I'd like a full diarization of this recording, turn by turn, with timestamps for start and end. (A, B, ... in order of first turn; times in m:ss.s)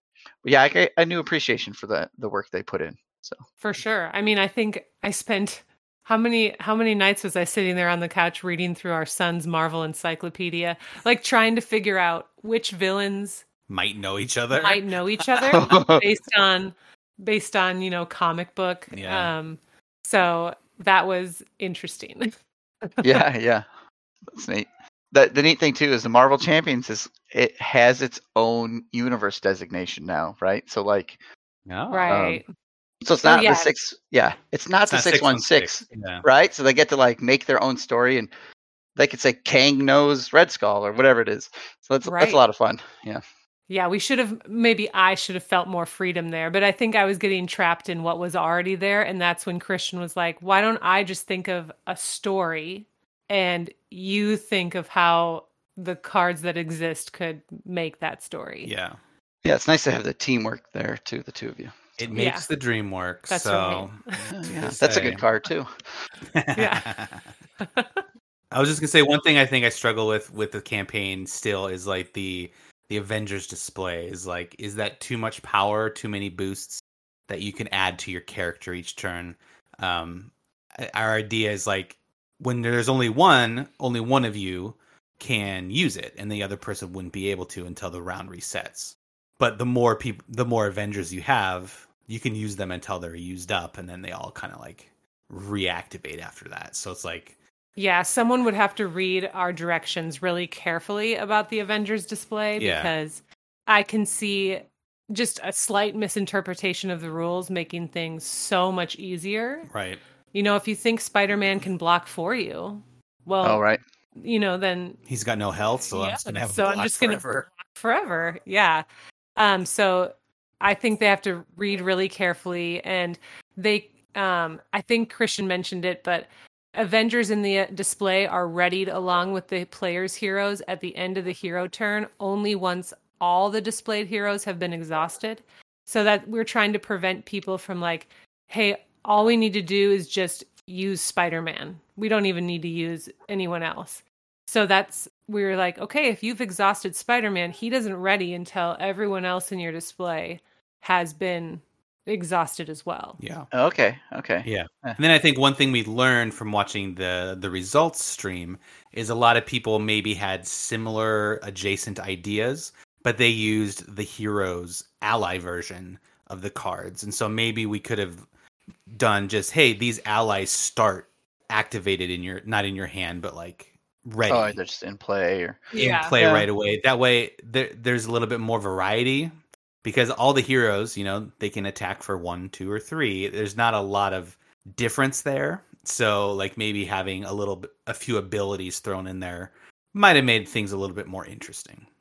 0:00.4-0:03.4 A
0:03.6-0:13.4 B
0:13.7-0:14.8 C
0:14.5-0:22.3 B
0:15.5-0:16.0 A
0:18.9-0:19.3 C
0:22.9-0:23.2 B
0:23.0-0:23.6 A
0:24.3-0:31.2 A
0:31.7-0:32.2 C
0:31.9-0:32.5 B
0:32.1-0:32.4 A
0:33.0-0:38.3 A
0:33.2-0:33.7 B
0:34.8-0:36.2 C
0:39.0-0:43.2 A
0:42.0-0:42.4 B
0:43.7-0:58.7 B
0:58.6-0:59.0 C
0:59.4-1:02.1 A
1:02.0-1:05.2 C
1:02.1-1:02.4 B
1:03.3-1:04.2 B
1:04.4-1:05.8 A
1:06.3-1:07.3 C
1:06.5-1:06.9 B
1:07.6-1:08.0 B
1:08.5-1:37.3 C
1:37.8-1:49.7 B
1:42.6-1:42.9 C
1:49.7-1:50.0 C
1:50.3-1:53.6 B
1:53.4-1:53.8 A
1:54.2-1:55.0 B
1:55.1-1:57.4 C
1:55.9-1:58.8 B
1:59.4-2:33.2 B
2:33.2-2:33.5 C
2:33.5-2:35.0 A
2:34.4-2:48.2 C
2:48.9-2:54.6 C
2:54.3-2:56.5 A
2:55.7-2:56.1 B
2:55.7-2:59.3 C
2:59.8-3:11.8 C